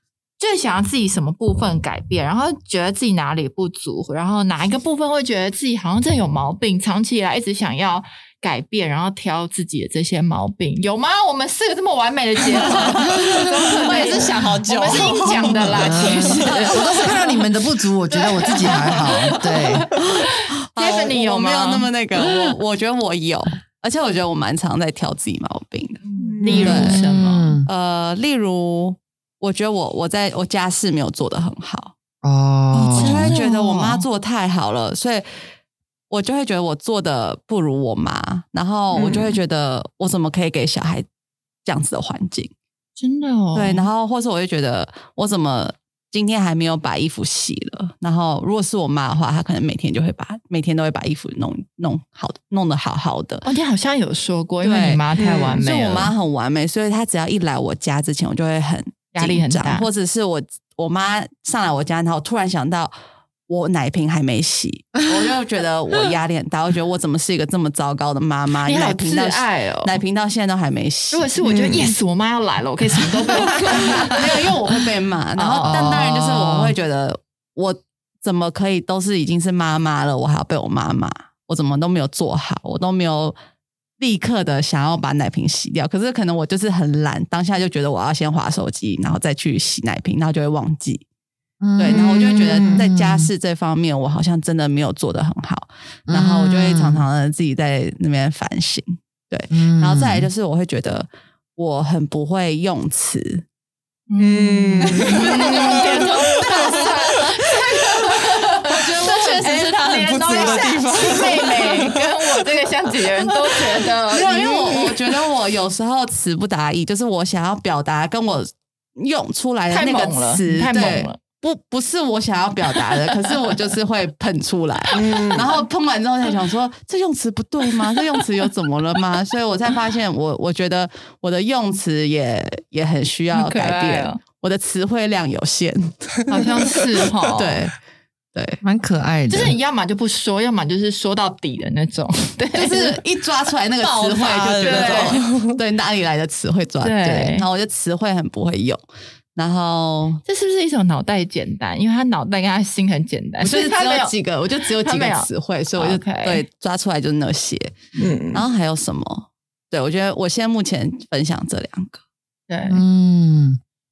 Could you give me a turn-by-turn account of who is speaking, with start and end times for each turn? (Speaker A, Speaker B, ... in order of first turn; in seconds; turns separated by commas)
Speaker A: 0.4-17.2, Speaker B: 12.9-16.8, Speaker C: 13.8-14.2, Speaker C: 14.8-15.2, Speaker D: 15.6-19.9, Speaker C: 16.4-16.7, Speaker A: 18.1-21.9, Speaker C: 19.9-27.0, Speaker D: 22.3-22.5, Speaker A: 26.1-27.6, Speaker B: 26.2-26.9, Speaker D: 26.4-27.7, Speaker C: 27.6-31.9, Speaker D: 32.2-33.4, Speaker A: 32.7-34.0, Speaker C: 32.9-35.3, Speaker C: 36.1-41.0, Speaker A: 38.9-39.3, Speaker C: 41.6-42.5, Speaker A: 43.0-43.9, Speaker C: 43.5-53.4, Speaker A: 53.4-56.1, Speaker C: 54.6-55.0, Speaker B: 55.2-55.6, Speaker C: 55.5-62.9, Speaker A: 59.1-59.9, Speaker C: 63.5-71.3, Speaker A: 68.7-70.0, Speaker A: 71.1-74.2, Speaker B: 71.4-71.9, Speaker C: 74.1-83.3, Speaker A: 75.3-75.9, Speaker D: 75.6-76.8, Speaker C: 84.0-91.0, Speaker D: 91.6-93.3, Speaker C: 91.8-103.4, Speaker B: 92.5-92.8, Speaker D: 96.1-97.0, Speaker D: 99.5-100.3, Speaker A: 104.1-114.9, Speaker B: 104.2-106.8, Speaker D: 104.8-105.1, Speaker C: 105.2-107.3, Speaker C: 108.7-110.8, Speaker B: 109.7-112.5, Speaker C: 114.1-136.2, Speaker A: 119.7-121.2, Speaker B: 124.9-125.5, Speaker A: 133.3-134.2, Speaker A: 136.3-137.7, Speaker B: 136.3-137.3, Speaker C: 137.3-137.8, Speaker C: 138.3-138.6, Speaker D: 138.6-139.6, Speaker A: 139.3-143.0, Speaker C: 142.5-148.8, Speaker B: 143.8-145.6, Speaker A: 144.6-145.2, Speaker A: 146.8-147.4, Speaker C: 149.3-150.2, Speaker A: 150.2-154.1, Speaker C: 153.4-157.8, Speaker A: 154.7-156.4, Speaker B: 158.0-158.4, Speaker C: 158.3-162.0, Speaker A: 162.5-162.8, Speaker D: 162.7-163.6